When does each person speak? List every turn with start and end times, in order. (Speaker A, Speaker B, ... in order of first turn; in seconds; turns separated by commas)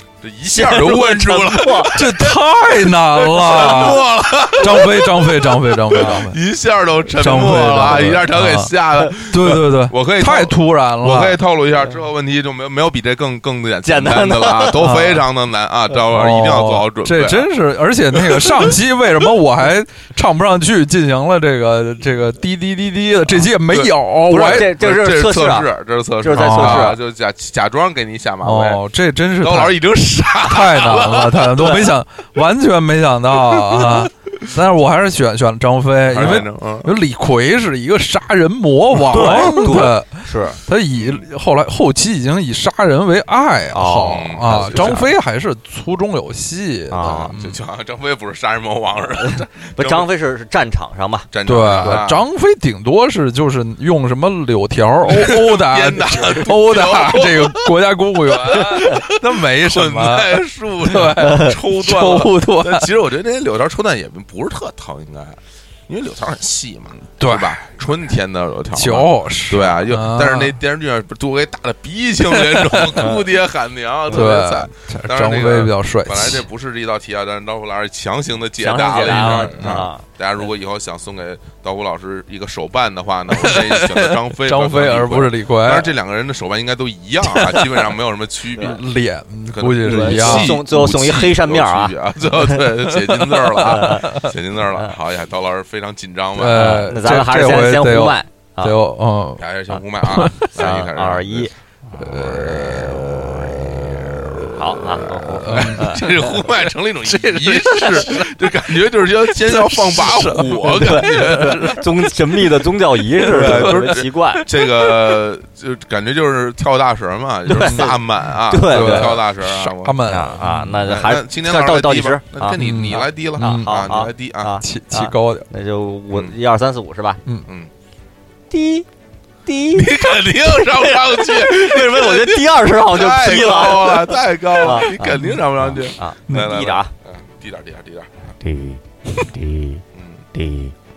Speaker A: 0.2-17.5, Speaker B: 0.4-2.0, Speaker C: 1.9-6.4, Speaker B: 5.9-6.2, Speaker C: 7.2-11.4, Speaker B: 13.8-14.8, Speaker C: 14.8-15.2, Speaker C: 16.1-24.7, Speaker A: 18.1-18.7, Speaker A: 23.3-28.8, Speaker B: 24.3-25.7, Speaker B: 26.2-27.0, Speaker C: 26.3-27.0, Speaker C: 28.4-29.8, Speaker A: 29.4-31.6, Speaker C: 30.4-47.6, Speaker B: 31.5-31.9, Speaker A: 33.6-34.1, Speaker A: 36.1-36.9, Speaker B: 39.1-40.6, Speaker A: 39.2-39.5, Speaker A: 41.0-41.2, Speaker B: 43.7-45.1, Speaker A: 44.1-45.0, Speaker B: 46.9-47.3, Speaker A: 47.1-50.1, Speaker B: 49.2-52.0, Speaker A: 51.3-52.2, Speaker C: 51.5-62.9, Speaker A: 55.1-57.8, Speaker A: 58.5-88.8, Speaker C: 67.2-67.7, Speaker C: 68.7-70.6, Speaker C: 72.3-73.2, Speaker C: 74.1-76.4, Speaker B: 78.6-80.0, Speaker C: 79.0-79.9, Speaker C: 83.3-85.9, Speaker C: 87.2-88.0, Speaker C: 88.6-90.6, Speaker A: 89.5-96.8, Speaker B: 89.8-91.9, Speaker C: 92.8-94.3, Speaker B: 93.6-94.1, Speaker C: 96.4-99.4, Speaker B: 96.5-98.8, Speaker A: 99.4-111.8, Speaker C: 100.0-100.4, Speaker B: 100.5-102.0, Speaker C: 102.0-103.6, Speaker B: 104.5-106.3, Speaker C: 105.4-108.5, Speaker C: 109.2-115.2, Speaker B: 110.6-114.5, Speaker A: 113.3-120.0, Speaker B: 117.5-118.0, Speaker C: 117.5-117.9, Speaker B: 118.5-119.2, Speaker C: 118.6-120.9, Speaker B: 120.1-127.2, Speaker A: 120.8-124.6, Speaker C: 122.6-123.9, Speaker C: 124.6-125.5, Speaker B: 128.5-128.9, Speaker B: 129.4-136.9, Speaker A: 129.7-138.1, Speaker C: 135.1-135.4, Speaker C: 136.3-136.5, Speaker B: 138.4-139.8, Speaker A: 139.9-140.2, Speaker B: 140.3-140.7